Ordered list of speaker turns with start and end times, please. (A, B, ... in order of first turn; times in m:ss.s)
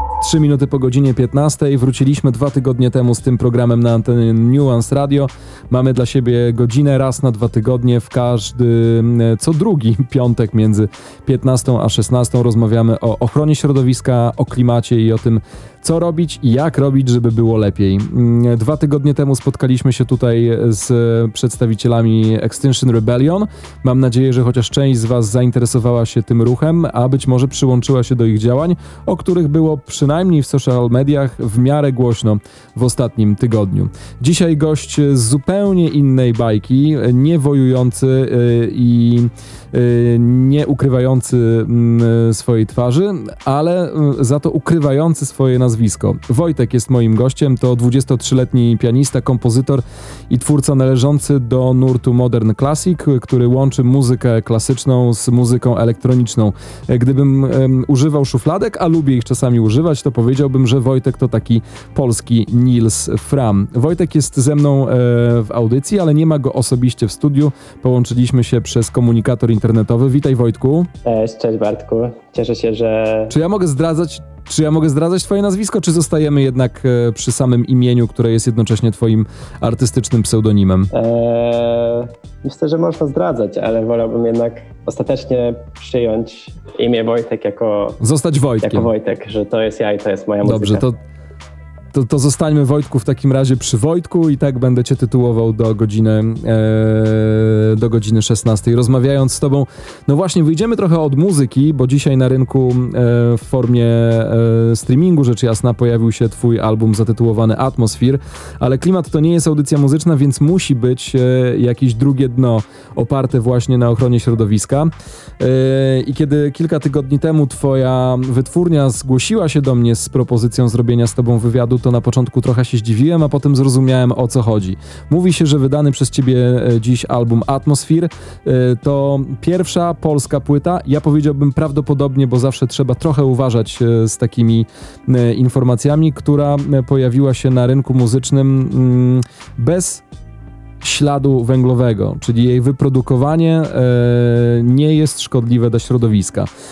0:00.2-1:10.9 A
1:11.0-1:13.3 B
1:13.3-1:20.9 A
1:20.9-1:28.0 B
1:28.0-1:28.9 A
1:28.6-1:30.9 B
1:30.4-1:30.9 A
1:31.9-2:20.0 A
2:20.8-2:26.5 A